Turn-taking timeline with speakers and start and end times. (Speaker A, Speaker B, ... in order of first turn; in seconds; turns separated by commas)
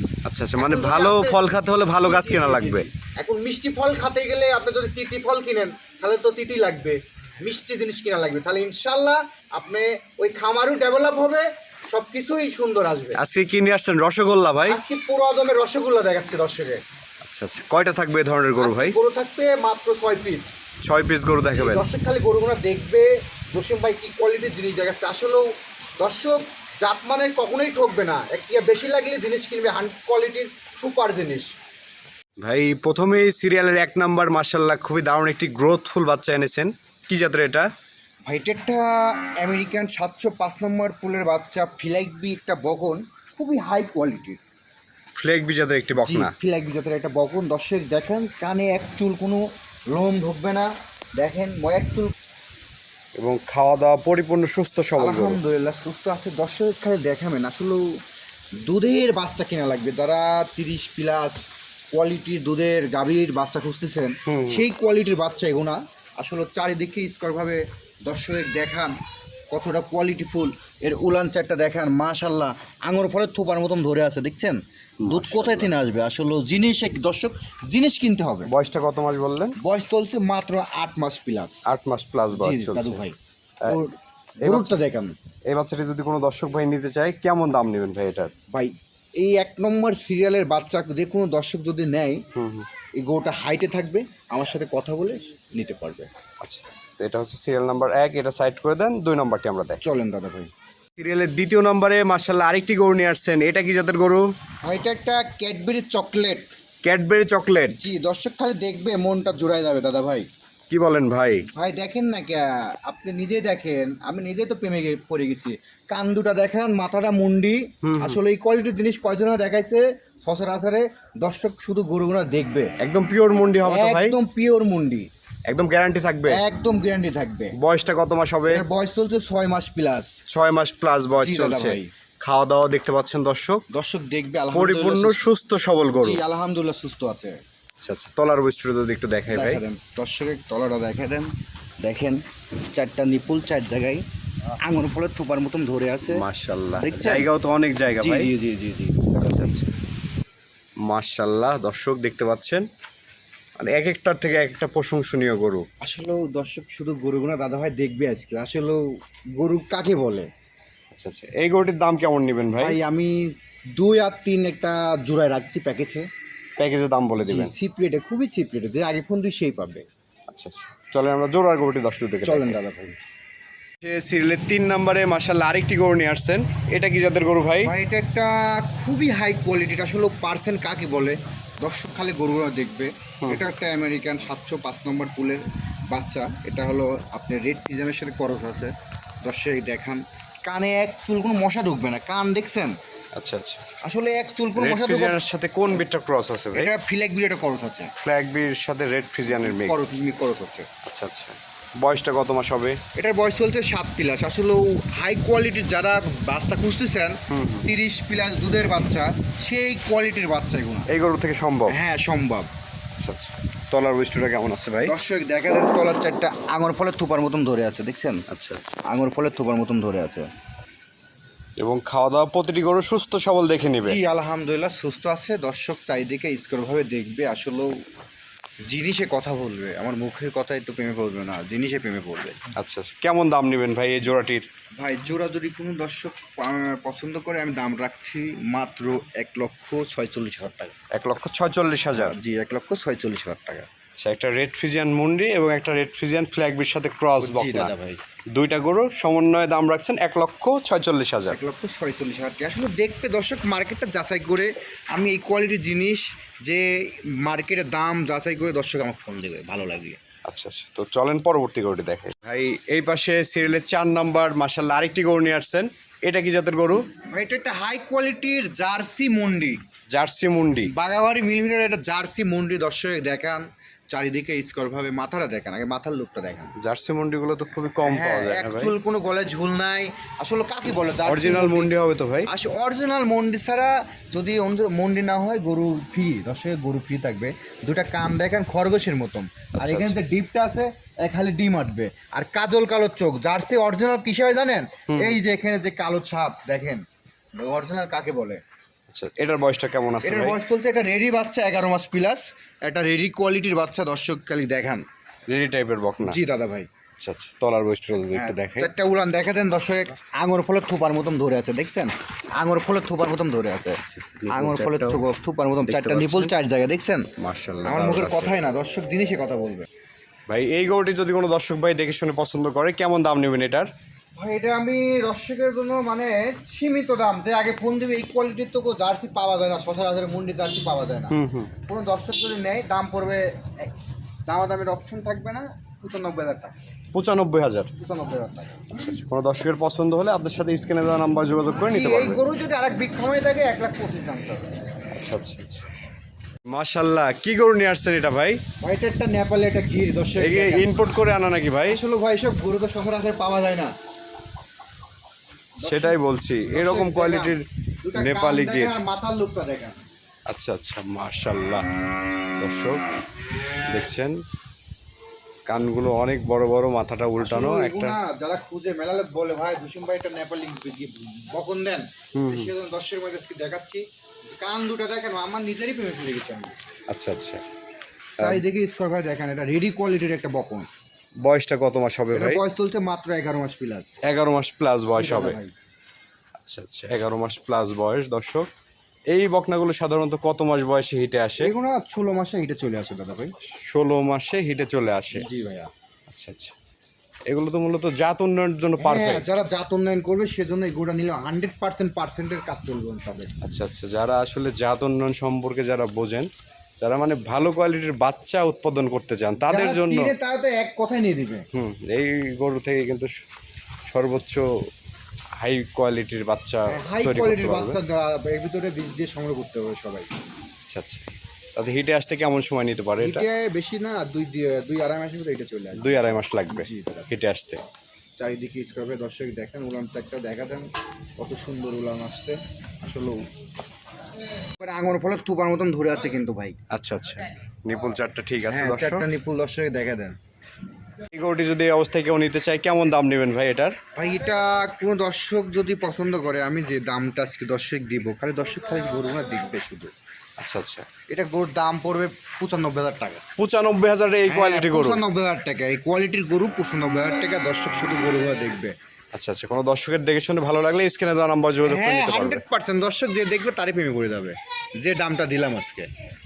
Speaker A: 0.2-2.9, Speaker B: 0.6-1.4, Speaker B: 2.0-13.2, Speaker A: 13.1-14.8, Speaker B: 14.7-16.8, Speaker A: 17.2-18.9, Speaker B: 18.6-20.5, Speaker A: 20.8-21.9, Speaker B: 21.5-25.4, Speaker B: 26.0-31.5, Speaker A: 32.4-37.7, Speaker B: 38.3-44.4, Speaker A: 45.1-46.3, Speaker B: 46.0-52.1, Speaker A: 53.2-55.4, Speaker B: 55.0-57.9, Speaker B: 58.6-61.4, Speaker B: 61.9-68.9, Speaker A: 64.2-64.6, Speaker B: 69.5-78.5, Speaker A: 75.0-75.7, Speaker A: 78.5-79.5, Speaker B: 79.6-81.6, Speaker A: 81.7-83.0, Speaker B: 82.3-85.1, Speaker A: 84.4-84.7, Speaker A: 85.5-88.3, Speaker B: 88.5-92.2, Speaker A: 92.3-92.7, Speaker B: 93.0-96.1, Speaker A: 96.4-99.8, Speaker B: 99.8-100.5, Speaker A: 101.0-104.2, Speaker B: 104.6-106.5, Speaker A: 106.8-107.8, Speaker B: 107.8-110.3, Speaker A: 110.7-111.5, Speaker B: 111.5-122.7, Speaker A: 117.8-118.2, Speaker A: 122.8-124.2, Speaker B: 123.6-125.1, Speaker A: 125.5-126.4, Speaker B: 126.3-127.5, Speaker A: 127.6-128.6, Speaker B: 128.4-130.1, Speaker A: 130.3-133.6, Speaker B: 131.2-131.9, Speaker B: 133.7-135.2, Speaker A: 134.5-136.2, Speaker B: 136.0-137.3, Speaker A: 137.8-139.6, Speaker B: 139.3-141.3, Speaker B: 141.8-142.2, Speaker B: 142.7-144.0, Speaker B: 144.6-146.2, Speaker A: 146.1-148.3, Speaker B: 146.8-147.2, Speaker B: 148.0-149.4, Speaker A: 149.2-149.7, Speaker A: 150.8-152.7, Speaker A: 153.6-155.7, Speaker B: 155.8-158.8, Speaker B: 159.4-160.3, Speaker A: 160.9-162.8, Speaker B: 162.6-166.1, Speaker A: 166.6-167.5, Speaker B: 167.2-169.8, Speaker A: 170.3-172.6, Speaker B: 172.2-173.0, Speaker A: 173.8-177.7, Speaker B: 177.6-192.8, Speaker A: 183.2-183.5, Speaker A: 193.2-193.7, Speaker B: 193.8-195.2, Speaker A: 194.6-196.7, Speaker B: 196.5-197.9, Speaker A: 198.0-199.9, Speaker B: 199.3-200.7, Speaker A: 200.8-202.8, Speaker B: 202.9-210.9, Speaker A: 207.3-207.7, Speaker A: 210.9-211.8, Speaker B: 211.7-212.5, Speaker A: 213.0-214.9, Speaker B: 214.8-218.2, Speaker A: 218.3-218.8, Speaker B: 218.8-220.3, Speaker A: 221.6-224.0, Speaker B: 223.8-227.7, Speaker B: 228.7-232.4, Speaker A: 232.6-234.4, Speaker B: 234.8-240.7, Speaker A: 240.9-242.2, Speaker B: 241.9-243.7, Speaker A: 244.0-247.7, Speaker B: 247.2-248.0, Speaker A: 248.3-251.4, Speaker B: 251.3-260.0, Speaker A: 260.2-266.9, Speaker B: 267.1-269.6, Speaker A: 269.9-270.7, Speaker B: 270.6-276.5, Speaker A: 276.6-278.7, Speaker B: 277.8-281.7, Speaker A: 281.1-282.3, Speaker B: 282.3-296.8, Speaker A: 289.6-290.0, Speaker A: 294.9-295.2, Speaker B: 297.4-298.4, Speaker A: 298.9-300.4, Speaker B: 300.0-304.8, Speaker A: 305.3-306.2, Speaker B: 306.0-306.7, Speaker A: 307.0-308.7, Speaker B: 308.1-317.1, Speaker A: 313.9-315.0, Speaker A: 315.7-316.3, Speaker A: 317.2-318.4, Speaker B: 317.6-319.6, Speaker A: 320.3-323.7, Speaker B: 324.2-333.7, Speaker A: 331.1-331.5, Speaker B: 334.2-336.5, Speaker A: 336.9-337.7, Speaker B: 337.8-338.8, Speaker A: 338.7-342.2, Speaker B: 341.6-344.5, Speaker A: 344.9-345.7, Speaker A: 346.5-348.4, Speaker B: 348.6-350.7, Speaker A: 350.2-351.8, Speaker B: 351.7-353.7, Speaker B: 355.6-359.8, Speaker A: 355.6-357.4, Speaker A: 357.9-358.7, Speaker A: 360.3-361.6, Speaker A: 362.4-362.8, Speaker A: 363.7-364.2, Speaker A: 365.5-368.0, Speaker B: 367.2-376.5, Speaker A: 372.1-372.5, Speaker A: 376.9-377.4, Speaker B: 378.2-380.7, Speaker A: 381.2-382.4, Speaker B: 382.1-383.9, Speaker A: 384.0-385.4, Speaker B: 385.0-385.5, Speaker A: 386.4-388.5, Speaker A: 389.1-391.5, Speaker B: 391.4-393.3, Speaker A: 393.6-395.2, Speaker B: 395.1-395.7, Speaker A: 396.1-396.5, Speaker A: 397.3-399.3, Speaker B: 398.8-403.3, Speaker A: 403.4-406.3, Speaker A: 406.8-410.1, Speaker B: 409.4-411.5, Speaker A: 411.5-413.1, Speaker A: 413.9-414.5, Speaker A: 415.4-417.8, Speaker B: 416.7-420.1, Speaker A: 420.7-423.2, Speaker B: 423.0-427.1, Speaker A: 425.8-427.6, Speaker B: 428.2-430.6, Speaker B: 431.2-433.2, Speaker B: 434.6-436.6, Speaker A: 436.7-439.1, Speaker B: 438.5-440.1, Speaker A: 441.1-443.7, Speaker B: 443.9-449.9, Speaker A: 450.4-450.9, Speaker B: 451.1-453.3, Speaker A: 453.4-455.0, Speaker B: 454.3-458.7, Speaker A: 459.1-462.4, Speaker B: 461.6-465.9